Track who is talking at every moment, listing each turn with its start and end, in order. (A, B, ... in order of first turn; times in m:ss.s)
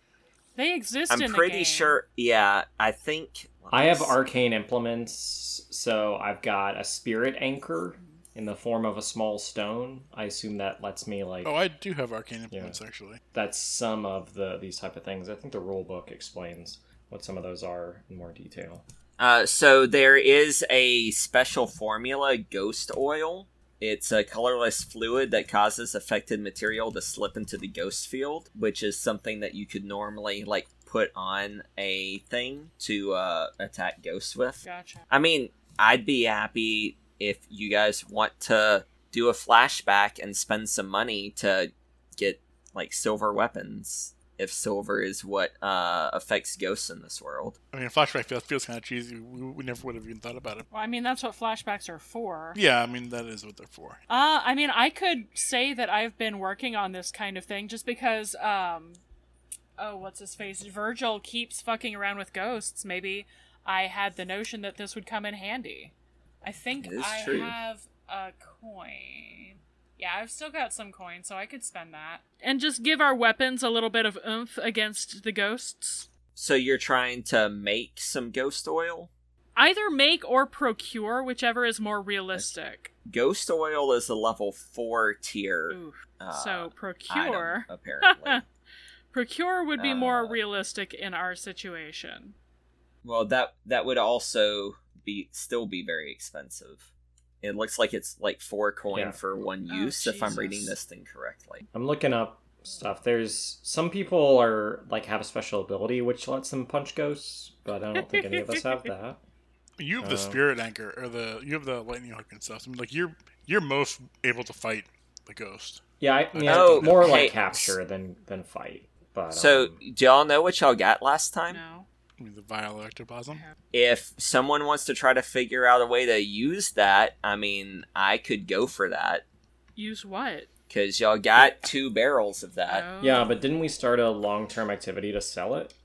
0:00.6-0:02.0 A
0:01.1-0:04.2 B
0:03.7-0:11.5 C
0:11.4-0:13.2 D
0:12.5-0:12.8 C
0:13.3-0:18.8 C
0:19.2-0:47.6 B
0:34.6-0:35.0 A
0:47.7-0:50.7 D
0:50.7-0:52.6 A
0:52.6-0:54.0 D
0:54.1-0:59.0 A
0:59.8-1:16.1 A
1:06.8-1:07.6 B
1:16.4-1:19.1 B
1:19.6-1:22.9 A
1:23.1-1:28.4 B
1:25.7-1:28.4 A
1:29.1-1:32.4 A
1:29.8-1:30.4 B
1:33.0-1:36.9 B
1:37.4-1:41.6 B
1:38.9-1:39.2 C
1:39.7-1:40.8 A
1:41.7-1:49.2 C
1:48.1-1:48.4 A
1:49.8-1:55.8 D
1:50.0-1:50.4 C
1:56.0-1:59.8 C
1:56.3-1:57.8 D
1:56.4-1:57.4 B
1:59.3-2:01.6 B
2:01.5-2:01.9 A
2:02.2-2:03.4 D
2:03.7-2:09.2 B
2:09.8-2:10.5 A
2:10.7-2:12.8 B
2:11.4-2:11.7 A
2:12.7-2:13.3 A
2:13.0-2:15.7 C